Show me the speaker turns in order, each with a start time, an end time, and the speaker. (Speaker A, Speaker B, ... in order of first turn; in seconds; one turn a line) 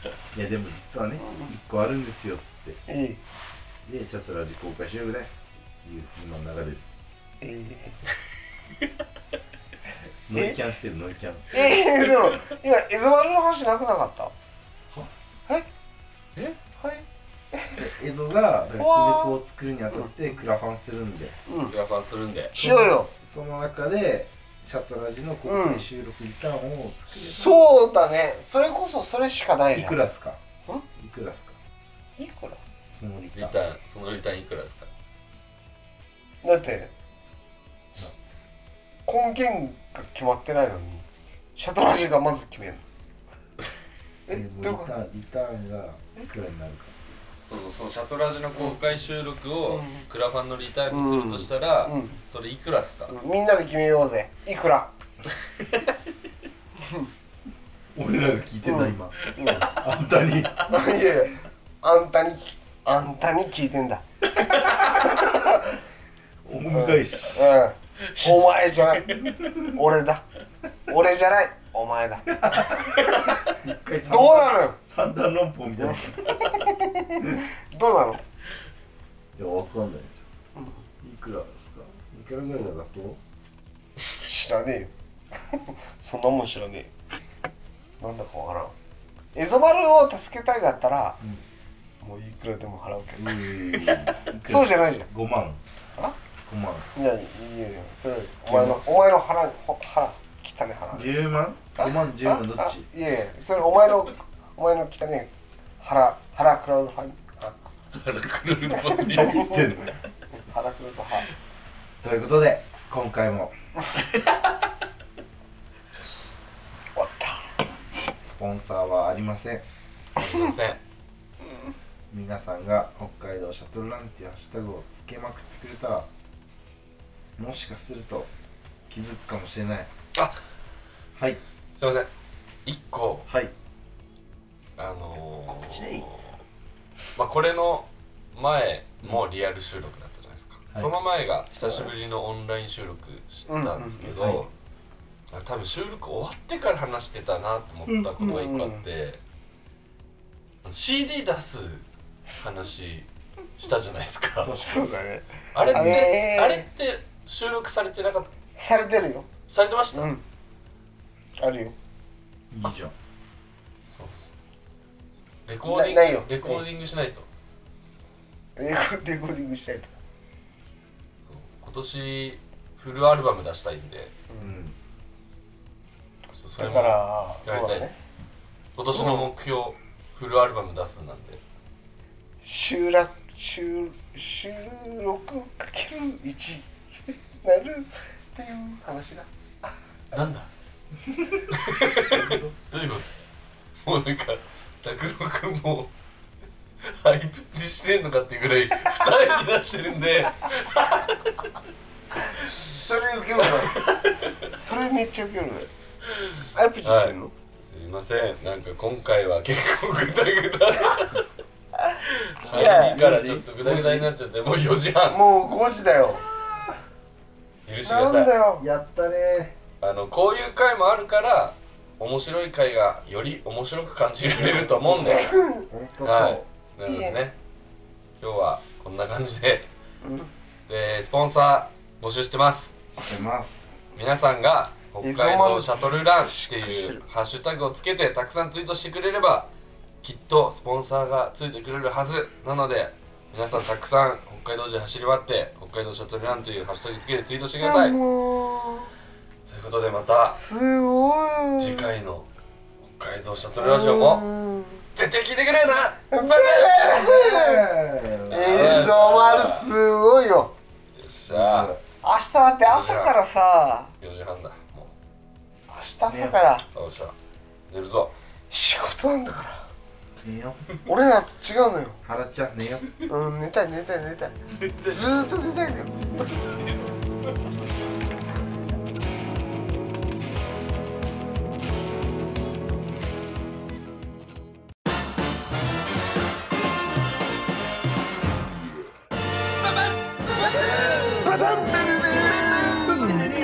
Speaker A: 0.3-2.8
Speaker B: 1.2-1.5
Speaker B: 2.9-3.2
Speaker A: 3.9-7.0
Speaker B: 7.4-8.0
Speaker A: 10.3-11.7
Speaker B: 10.3-10.6
Speaker B: 11.5-14.3
Speaker B: 16.8-17.8
Speaker A: 17.8-21.4
Speaker B: 18.8-19.4
Speaker B: 21.5-21.8
Speaker C: 21.7-22.6
Speaker B: 22.5-23.1
Speaker A: 22.5-27.6
Speaker B: 25.5-25.9
Speaker B: 27.1-30.0
Speaker A: 29.7-30.4
Speaker A: 31.0-31.6
Speaker B: 32.2-32.6
Speaker A: 32.9-33.6
Speaker C: 33.4-34.9
Speaker B: 36.4-36.9
Speaker B: 39.1-42.8
Speaker B: 44.3-45.0
Speaker A: 44.3-46.9
Speaker C: 47.4-53.1
Speaker B: 49.7-50.1
Speaker B: 50.9-52.2
Speaker B: 53.1-54.9
Speaker B: 56.8-57.1
Speaker A: 57.9-60.7
Speaker B: 58.6-59.8
Speaker C: 59.2-59.8
Speaker B: 60.7-65.8
Speaker A: 64.3-65.5
Speaker A: 66.4-67.6
Speaker B: 66.7-70.2
Speaker C: 68.1-68.4
Speaker C: 69.0-69.4
Speaker A: 69.1-69.7
Speaker B: 70.9-73.4
Speaker A: 72.3-77.4
Speaker B: 74.0-74.8
Speaker B: 75.8-78.2
Speaker A: 79.3-80.3
Speaker B: 80.5-80.8
Speaker A: 81.0-83.2
Speaker B: 84.1-84.9
Speaker B: 85.5-86.9
Speaker B: 88.0-88.7
Speaker B: 89.3-91.2
Speaker B: 92.0-95.1
Speaker A: 93.2-95.6
Speaker A: 96.5-96.9
Speaker B: 96.9-101.2
Speaker A: 98.5-98.8
Speaker A: 100.9-102.9
Speaker B: 101.8-107.6
Speaker C: 107.9-109.6
Speaker B: 108.8-109.7
Speaker A: 109.0-110.0
Speaker B: 110.4-111.3
Speaker A: 112.0-113.5
Speaker C: 114.2-114.5
Speaker B: 117.0-117.5
Speaker A: 118.2-119.6
Speaker C: 120.2-120.8
Speaker A: 122.1-126.1
Speaker A: 127.4-128.3
Speaker A: 128.9-129.9
Speaker C: 131.8-132.1
Speaker C: 132.7-133.3
Speaker A: 133.3-133.5
Speaker C: 134.8-136.3
Speaker A: 135.4-136.2
Speaker C: 137.2-144.5
Speaker B: 143.5-144.1
Speaker A: 144.1-144.4
Speaker C: 145.3-149.2
Speaker B: 148.2-148.8
Speaker C: 150.6-154.6
Speaker A: 154.4-154.9
Speaker B: 154.5-156.7
Speaker C: 155.5-158.3
Speaker A: 155.6-156.1
Speaker B: 158.6-159.3
Speaker C: 159.5-160.1
Speaker B: 159.9-160.2
Speaker B: 161.4-161.8
Speaker A: 162.5-162.9
Speaker C: 163.9-164.3
Speaker C: 165.5-167.3
Speaker B: 165.6-166.7
Speaker B: 168.6-169.9
Speaker C: 171.3-174.1
Speaker B: 174.3-174.6
Speaker A: 174.4-174.8
Speaker C: 176.3-177.9
Speaker B: 176.6-177.9
Speaker C: 178.8-181.4
Speaker B: 178.9-179.3
Speaker B: 182.4-189.3
Speaker C: 190.1-190.5
Speaker A: 191.1-191.4
Speaker C: 191.5-193.1
Speaker A: 192.0-192.5
Speaker C: 193.8-195.9
Speaker C: 196.8-201.4
Speaker C: 202.3-202.7
Speaker B: 202.6-203.9
Speaker C: 203.4-204.4
Speaker B: 204.5-205.7
Speaker C: 206.1-211.2
Speaker B: 206.5-207.3
Speaker C: 212.0-215.2
Speaker A: 212.4-214.1
Speaker B: 212.5-213.0
Speaker B: 215.1-216.2
Speaker C: 217.7-218.3
Speaker B: 217.8-218.7
Speaker A: 218.6-219.5
Speaker C: 219.8-225.3
Speaker A: 224.3-226.4
Speaker B: 224.9-225.7
Speaker C: 226.0-227.3
Speaker B: 226.8-227.2
Speaker C: 228.2-229.7
Speaker B: 230.0-230.3
Speaker C: 230.7-232.8
Speaker A: 232.9-233.8
Speaker C: 233.9-239.5
Speaker B: 235.0-237.0
Speaker C: 240.0-248.0
Speaker B: 247.6-248.9
Speaker C: 249.5-250.4
Speaker B: 250.3-251.9
Speaker C: 251.6-252.3
Speaker C: 252.8-254.3
Speaker B: 253.6-254.8
Speaker C: 254.9-256.8
Speaker B: 256.1-257.7
Speaker A: 256.9-258.9
Speaker C: 258.3-259.7
Speaker B: 258.3-260.5
Speaker C: 261.0-261.8
Speaker A: 261.3-261.8
Speaker B: 262.0-263.9
Speaker C: 262.6-263.1
Speaker C: 264.0-264.9
Speaker B: 265.7-266.6
Speaker A: 266.1-266.4
Speaker C: 266.7-267.1
Speaker C: 267.7-268.1
Speaker B: 268.5-269.7
Speaker A: 270.2-270.7
Speaker B: 270.8-272.0
Speaker A: 272.0-273.0
Speaker B: 273.1-276.5
Speaker C: 274.6-275.1
Speaker B: 290.9-293.2